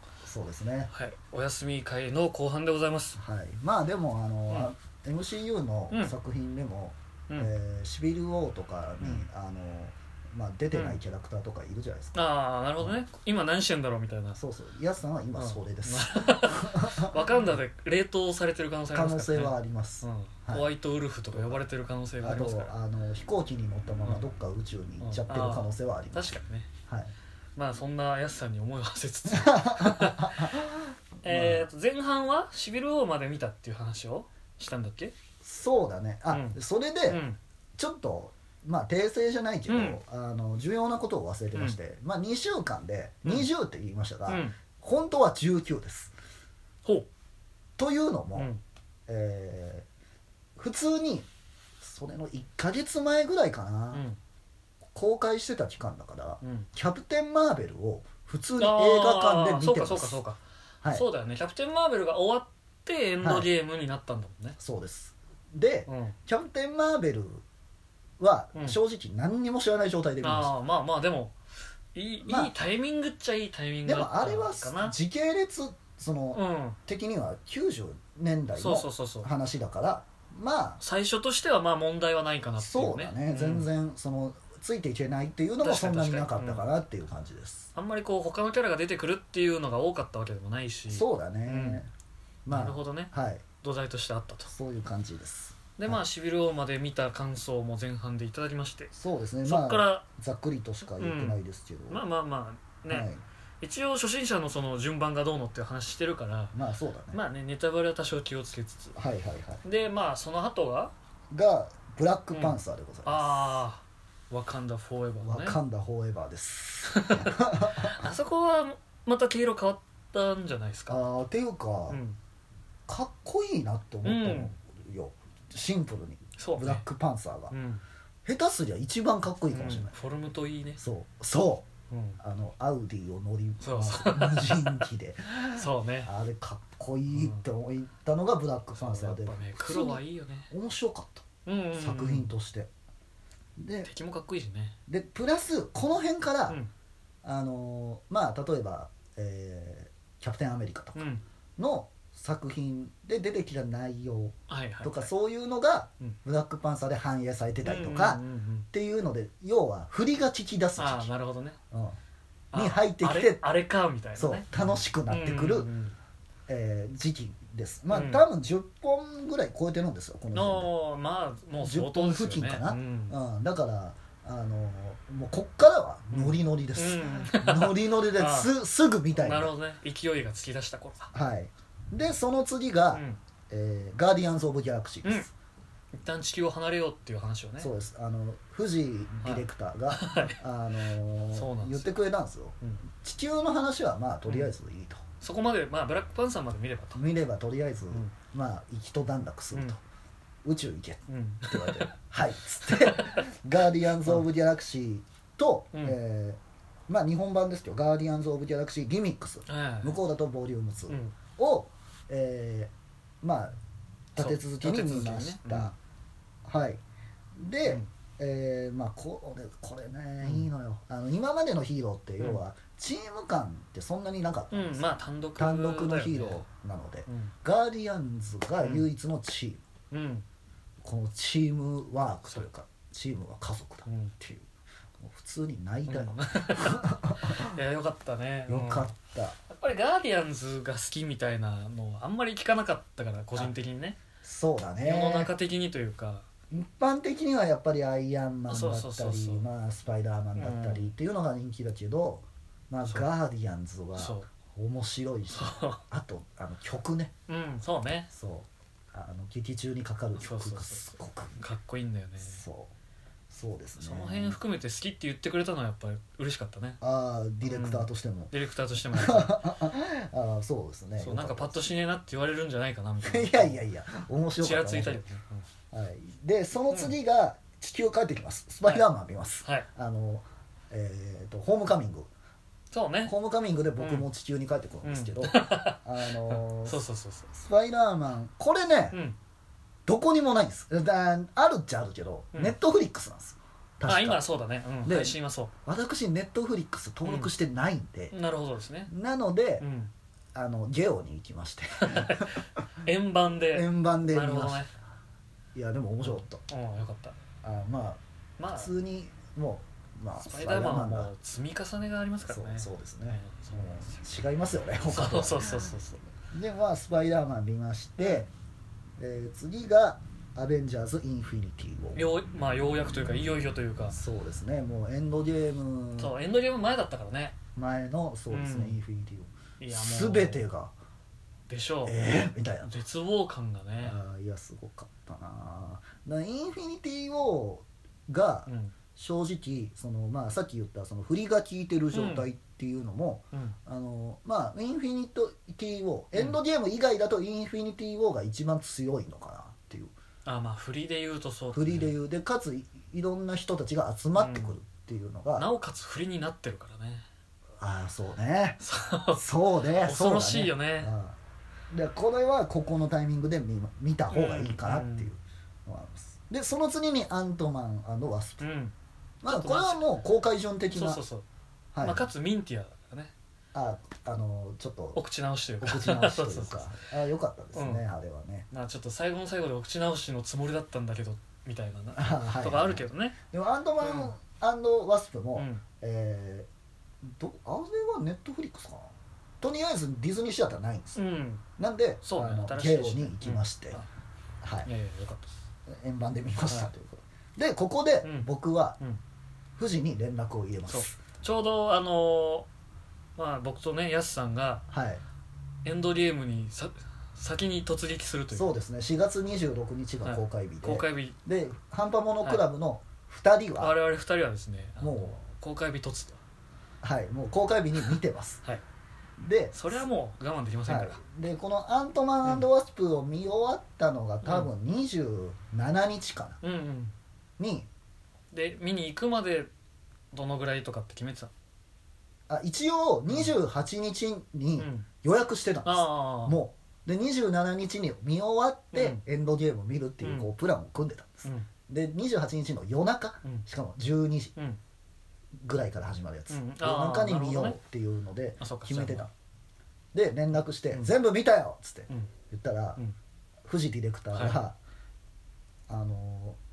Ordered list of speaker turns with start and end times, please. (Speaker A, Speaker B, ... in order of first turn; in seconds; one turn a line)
Speaker A: 0.2-0.9
Speaker B: 0.9-3.2
Speaker A: 3.2-12.2
Speaker B: 9.0-9.3
Speaker B: 10.7-11.0
Speaker B: 12.2-14.4
Speaker A: 14.3-17.4
Speaker B: 15.3-22.7
Speaker A: 18.9-20.7
Speaker A: 21.3-21.6
Speaker A: 22.2-26.3
Speaker B: 25.0-26.7
Speaker A: 26.9-27.1
Speaker B: 27.6-30.6
Speaker A: 29.3-31.7
Speaker B: 31.2-35.1
Speaker A: 35.4-37.2
Speaker B: 36.3-36.6
Speaker B: 37.1-37.4
Speaker A: 37.8-46.1
Speaker B: 39.7-40.0
Speaker B: 44.3-44.6
Speaker A: 47.8-48.5
Speaker B: 48.4-48.6
Speaker A: 49.1-49.9
Speaker A: 50.6-51.3
Speaker A: 51.8-54.0
Speaker B: 53.9-54.2
Speaker A: 54.9-60.2
Speaker B: 56.4-56.7
Speaker B: 58.6-60.4
Speaker B: 60.9-64.6
Speaker A: 63.2-63.5
Speaker A: 64.6-67.4
Speaker B: 65.9-66.2
Speaker A: 68.2-70.5
Speaker B: 70.2-71.3
Speaker B: 72.0-75.0
Speaker A: 72.2-72.5
Speaker A: 73.9-80.8
Speaker B: 76.3-76.8
Speaker B: 78.6-79.3
Speaker B: 80.8-83.7
Speaker A: 82.6-87.7
Speaker B: 85.6-86.7
Speaker B: 87.8-91.8
Speaker A: 90.9-91.9
Speaker A: 92.5-93.4
Speaker B: 92.5-94.5
Speaker A: 94.5-96.0
Speaker B: 95.8-98.9
Speaker A: 98.9-102.0
Speaker B: 99.4-100.0
Speaker B: 101.0-103.1
Speaker A: 102.9-103.2
Speaker B: 103.6-106.6
Speaker A: 106.5-107.2
Speaker B: 107.1-109.0
Speaker A: 109.0-109.6
Speaker B: 109.6-110.9
Speaker A: 111.3-113.6
Speaker B: 112.3-115.6
Speaker A: 115.2-117.9
Speaker B: 116.9-121.0
Speaker A: 120.9-122.0
Speaker B: 121.9-122.2
Speaker A: 122.9-127.5
Speaker B: 124.0-124.5
Speaker B: 126.4-126.8
Speaker B: 127.5-127.8
Speaker A: 128.2-129.9
Speaker B: 129.5-130.8
Speaker A: 130.8-131.7
Speaker B: 131.9-132.2
Speaker A: 132.2-141.2
Speaker B: 133.6-134.8
Speaker B: 135.6-136.1
Speaker B: 137.1-137.4
Speaker B: 138.7-140.5
Speaker B: 141.5-142.3
Speaker A: 141.8-142.7
Speaker A: 143.6-143.9
Speaker B: 143.8-144.8
Speaker A: 144.9-146.6
Speaker A: 147.2-151.0
Speaker B: 150.9-151.2
Speaker A: 151.6-161.1
Speaker B: 154.5-155.1
Speaker B: 157.6-158.7
Speaker B: 160.8-161.6
Speaker A: 161.7-162.0
Speaker B: 162.5-165.9
Speaker A: 162.5-163.5
Speaker A: 164.2-165.7
Speaker A: 166.5-170.7
Speaker B: 167.9-168.2
Speaker B: 170.3-173.2
Speaker A: 171.6-179.6
Speaker B: 176.1-178.5
Speaker B: 179.2-181.1
Speaker A: 181.1-185.3
Speaker B: 182.9-183.2
Speaker B: 186.0-187.7
Speaker A: 187.6-195.0
Speaker B: 189.2-190.4
Speaker B: 191.3-191.9
Speaker B: 194.3-194.5
Speaker B: 195.2-197.0
Speaker A: 197.0-199.8
Speaker A: 200.4-213.6
Speaker B: 201.1-201.9
Speaker B: 202.7-203.3
Speaker B: 205.7-206.0
Speaker B: 209.5-210.0
Speaker B: 210.9-211.2
Speaker A: 214.1-215.8
Speaker B: 214.2-215.8
Speaker A: 216.4-216.8
Speaker A: 217.4-229.6
Speaker B: 220.2-220.5
Speaker B: 224.5-226.4
Speaker B: 227.1-227.3
Speaker B: 228.6-228.9
Speaker B: 229.9-230.2
Speaker A: 230.8-234.5
Speaker B: 233.9-234.1
Speaker A: 235.0-237.6
Speaker B: 235.9-238.9
Speaker A: 238.5-239.4
Speaker B: 239.5-244.0
Speaker A: 244.2-245.3
Speaker B: 244.8-246.2
Speaker A: 246.5-257.1
Speaker B: 248.5-249.4
Speaker B: 250.4-250.9
Speaker B: 254.0-254.3
Speaker B: 255.3-255.8
Speaker B: 257.3-258.1
Speaker A: 258.1-261.4
Speaker B: 260.2-262.4
Speaker A: 262.2-262.7
Speaker A: 263.3-264.4
Speaker B: 263.8-266.8
Speaker A: 266.8-268.3
Speaker B: 267.4-269.5
Speaker A: 268.9-271.6
Speaker B: 271.0-273.7
Speaker A: 273.0-275.1
Speaker B: 274.4-275.5
Speaker A: 275.7-282.1
Speaker B: 282.7-283.1
Speaker A: 283.1-289.0
Speaker B: 283.8-284.1
Speaker B: 284.8-287.3
Speaker A: 289.9-294.2
Speaker B: 293.9-295.5
Speaker A: 294.8-298.1
Speaker B: 297.1-297.3
Speaker B: 298.1-298.9
Speaker A: 298.9-299.7
Speaker B: 299.6-299.9
Speaker A: 300.4-302.4
Speaker B: 301.8-304.7
Speaker A: 303.5-304.6
Speaker A: 305.6-306.4
Speaker B: 306.0-307.2
Speaker A: 307.4-311.1
Speaker B: 308.4-308.7
Speaker B: 310.2-314.0
Speaker A: 312.3-318.3
Speaker B: 314.9-316.1
Speaker B: 318.0-318.3
Speaker A: 319.0-322.1
Speaker B: 322.0-324.0
Speaker A: 323.9-326.2
Speaker B: 326.0-327.4
Speaker A: 327.6-330.7
Speaker B: 328.3-328.8
Speaker B: 329.6-330.5
Speaker B: 331.5-332.1
Speaker A: 331.9-332.8
Speaker B: 332.7-334.0
Speaker A: 333.8-349.9
Speaker B: 338.5-338.7
Speaker B: 341.9-342.3
Speaker B: 346.1-346.4
Speaker B: 350.2-351.9
Speaker A: 351.5-355.5
Speaker B: 354.1-354.6
Speaker B: 355.4-357.1
Speaker A: 357.6-358.6
Speaker B: 358.6-359.2
Speaker A: 359.1-361.2
Speaker B: 359.7-360.9
Speaker A: 361.7-368.5
Speaker B: 364.1-365.1
Speaker B: 368.4-368.7
Speaker A: 369.2-371.0
Speaker B: 369.2-369.9
Speaker B: 370.7-371.2
Speaker A: 371.7-372.1
Speaker B: 371.8-373.1
Speaker A: 373.5-375.0
Speaker B: 374.9-376.8
Speaker A: 375.6-378.5
Speaker B: 377.6-377.8
Speaker B: 378.5-383.2
Speaker A: 381.9-386.5
Speaker B: 383.8-384.1
Speaker B: 385.4-385.6
Speaker A: 387.0-391.0
Speaker B: 391.0-391.4
Speaker A: 391.6-393.8
Speaker B: 392.0-393.9
Speaker A: 394.4-394.7
Speaker B: 394.7-395.4
Speaker A: 395.7-398.8
Speaker B: 396.5-396.7
Speaker B: 398.0-399.0
Speaker A: 399.6-401.0
Speaker B: 400.7-402.5
Speaker B: 403.2-404.6
Speaker A: 404.7-405.0
Speaker B: 405.6-408.5
Speaker A: 408.3-413.8
Speaker B: 410.0-411.2
Speaker B: 413.6-416.2
Speaker A: 414.8-415.2
Speaker A: 416.8-418.4
Speaker B: 417.8-418.6
Speaker A: 419.2-419.9
Speaker B: 419.5-421.0
Speaker A: 420.7-426.4
Speaker B: 424.2-424.5
Speaker B: 426.4-426.9
Speaker A: 427.4-427.7
Speaker B: 428.3-429.5
Speaker B: 430.1-431.3
Speaker A: 432.3-444.4
Speaker B: 433.1-433.4
Speaker B: 434.6-434.9
Speaker B: 435.6-436.4
Speaker B: 438.7-439.0
Speaker B: 440.0-440.3
Speaker A: 445.4-449.1
Speaker B: 446.3-447.6
Speaker B: 448.4-449.1
Speaker A: 449.9-452.8
Speaker A: 453.5-454.6
Speaker B: 454.1-454.4
Speaker A: 455.7-456.4